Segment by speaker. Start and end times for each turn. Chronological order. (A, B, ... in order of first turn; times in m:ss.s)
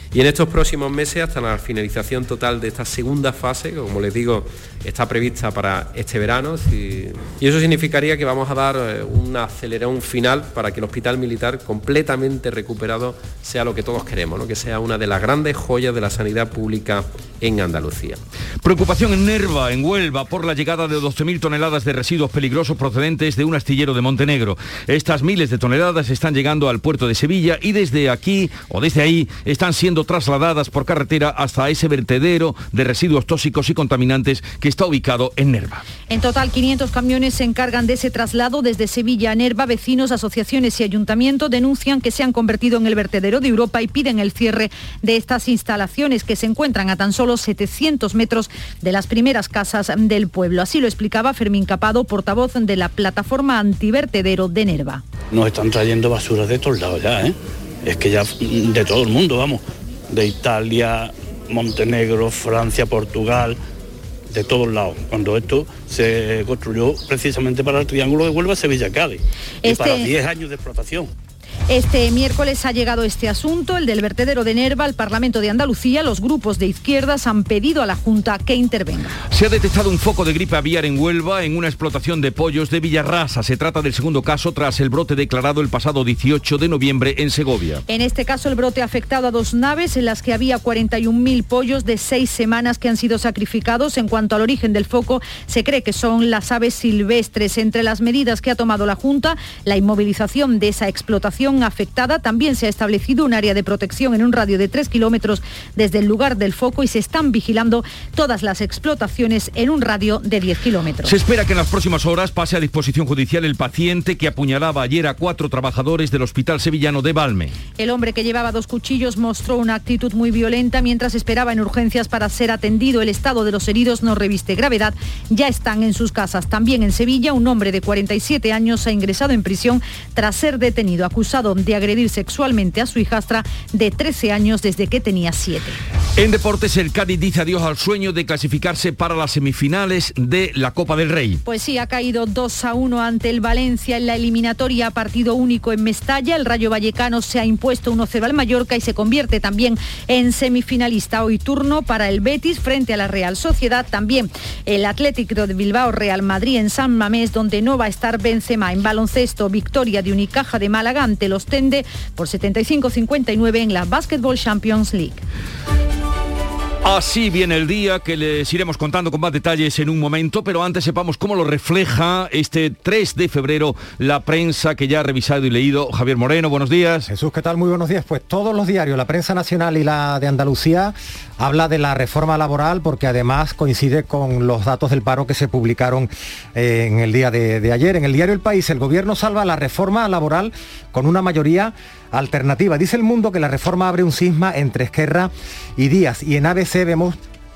0:00.1-0:18.2 A
0:18.6-0:35.8 B
0:36.1-0:55.0 C
0:55.3-1:03.6 D
1:04.3-1:11.1 D
1:09.6-1:10.1 C
1:11.7-1:19.2 C
1:19.3-1:27.8 B
1:27.9-1:51.1 C
1:51.0-1:57.6 B
1:57.8-2:15.8 C
2:16.2-2:21.4 B
2:21.4-2:45.2 C
2:46.8-2:57.1 B
2:57.1-3:17.2 E